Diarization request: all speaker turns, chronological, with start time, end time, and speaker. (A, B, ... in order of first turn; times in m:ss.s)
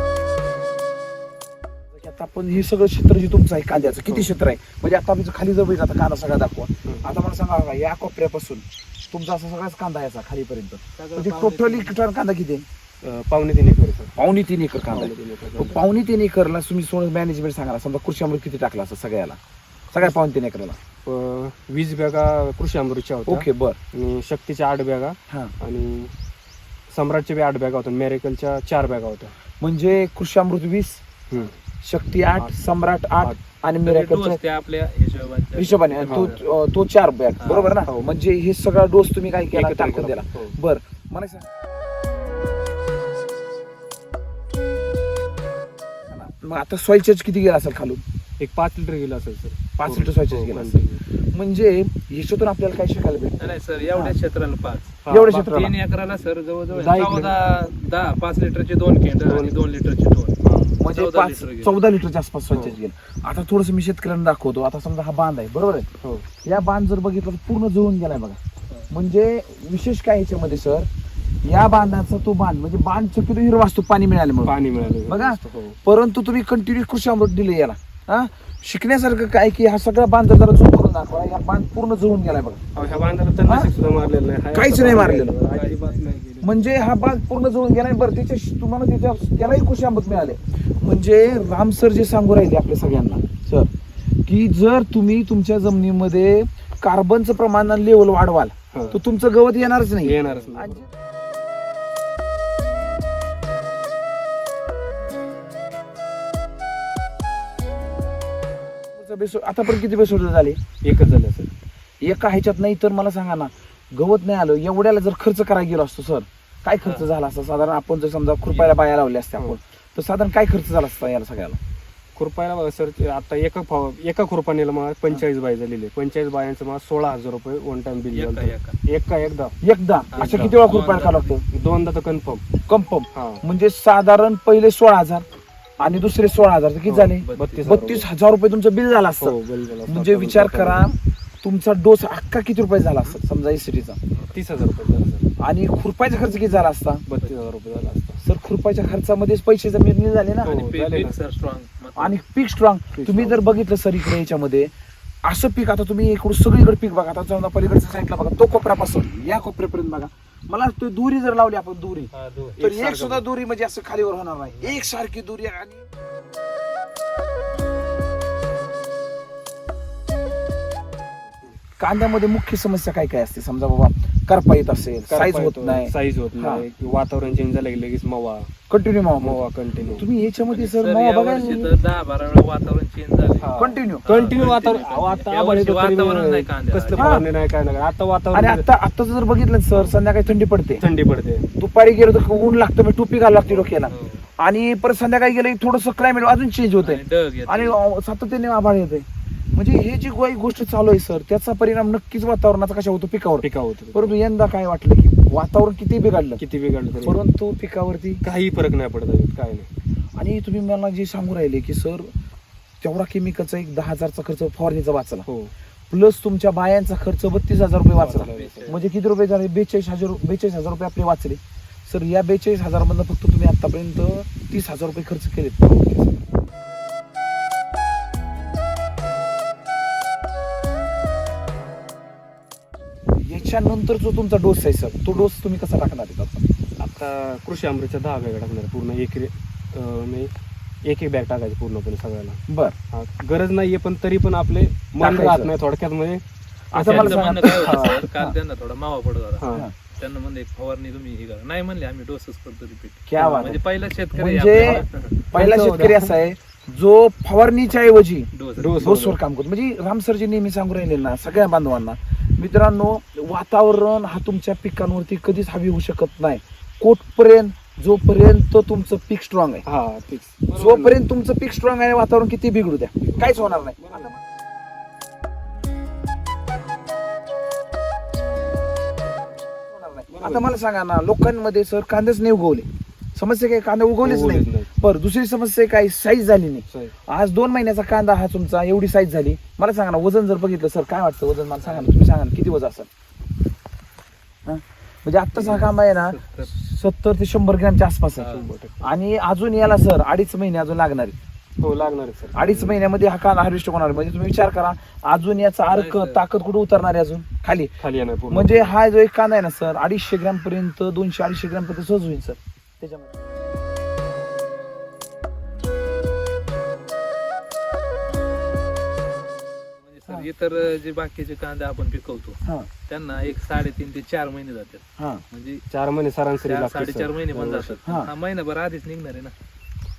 0:01.9-0:12.7 A
0:04.1-0:04.3 B
0:11.0-0:12.0 C
0:13.0-0:14.1 B
0:14.2-0:19.4 A
0:14.9-0:15.8 B
0:19.9-0:20.8 A
0:21.0-0:26.1 B
0:23.3-0:23.8 A
0:26.9-0:29.3 B
0:29.6-0:31.0 A
0:31.8-0:34.4 A
0:33.8-0:36.5 C
0:35.6-0:41.5 A
0:36.1-0:36.3 B
0:37.4-0:37.7 C
0:37.5-0:38.1 B
0:39.5-0:40.6 B
0:46.1-0:48.0 A
0:48.4-0:51.0 B
0:49.8-0:54.2 A
0:53.4-1:01.8 C
0:55.0-0:55.6 B
0:55.1-0:55.8 A
0:56.7-0:57.4 B
0:59.3-0:59.6 B
1:00.4-1:00.8 B
1:00.8-1:05.9 A
1:02.5-1:02.8 B
1:06.4-1:08.4 A
1:08.9-1:10.9 A
1:11.4-1:22.6 A
1:14.4-1:15.8 B
1:22.8-1:26.6 B
1:24.5-1:25.4 A
1:25.5-1:26.2 C
1:26.4-1:33.7 A
1:34.3-1:40.9 A
1:38.7-1:39.0 B
1:40.0-1:40.8 B
1:48.9-1:50.6 A
1:50.8-1:51.5 B
1:52.0-2:01.6 A
1:56.8-1:57.1 C
1:58.4-1:58.7 C
2:02.2-2:09.6 B
2:08.1-2:08.8 C
2:09.6-2:11.4 A
2:10.1-2:11.4 C
2:10.2-2:10.6 B
2:11.5-2:12.4 B
2:12.7-2:15.2 A
2:13.1-2:13.4 B
2:15.8-2:24.0 A
2:16.9-2:18.1 B
2:17.2-2:17.7 C
2:19.2-2:20.9 B
2:24.3-2:25.3 B
2:25.4-2:27.0 A
2:27.1-2:28.2 B
2:28.2-2:30.5 A
2:30.4-2:31.1 B
2:30.5-2:32.2 C
2:32.0-2:34.7 A
2:32.9-2:33.4 B
2:35.2-2:45.9 A
2:42.1-2:42.6 C
2:42.6-2:43.2 B
2:51.8-2:56.7 A
2:55.1-2:58.5 B
2:58.7-2:59.4 A
2:59.2-3:00.1 B
3:00.0-3:01.7 A
3:00.5-3:03.5 C
3:03.4-3:08.6 B
3:03.6-3:04.1 A
3:04.0-3:07.2 C
3:07.0-3:07.2 A
3:08.3-3:10.8 A
3:10.8-3:11.5 B
3:11.6-3:26.4 A
3:13.5-3:13.8 B
3:13.9-3:14.3 C
3:16.8-3:17.8 C
3:23.4-3:24.2 B
3:26.4-3:27.2 B
3:27.0-3:28.2 A
3:28.2-3:29.7 B
3:30.2-3:32.1 A
3:32.8-3:35.3 A
3:35.3-3:35.5 B
3:35.9-3:46.2 A
3:38.0-3:38.8 B
3:38.2-3:38.9 C
3:53.2-3:56.4 A
3:56.8-4:00.3 B
4:00.8-4:02.4 B
4:02.5-4:02.8 A
4:02.9-4:06.2 B
4:05.0-4:05.5 A
4:06.7-4:08.4 A
4:06.7-4:08.0 B
4:06.8-4:15.2 C
4:09.4-4:09.7 B
4:13.1-4:13.6 A
4:13.2-4:13.5 B
4:14.1-4:29.6 A
4:15.3-4:16.1 B
4:18.3-4:18.9 C
4:18.6-4:19.2 B
4:29.6-4:31.0 B
4:30.5-4:34.2 A
4:33.0-4:34.1 B
4:39.6-4:52.9 A
4:40.1-4:40.5 B
4:44.0-4:44.7 B
4:46.7-4:47.0 B
4:51.6-4:51.9 B
4:54.5-4:58.3 A
4:55.4-4:55.7 B
4:56.0-4:56.5 C
4:58.2-4:58.5 C
4:58.3-4:58.9 B
4:58.8-5:01.2 A
5:01.6-5:02.8 B
5:02.4-5:07.7 A
5:05.6-5:06.2 C
5:07.8-5:08.7 B
5:08.3-5:13.1 A
5:19.8-5:25.6 C
5:22.4-5:22.7 A
5:25.7-5:27.8 B
5:26.5-5:29.3 C
5:27.8-5:28.1 A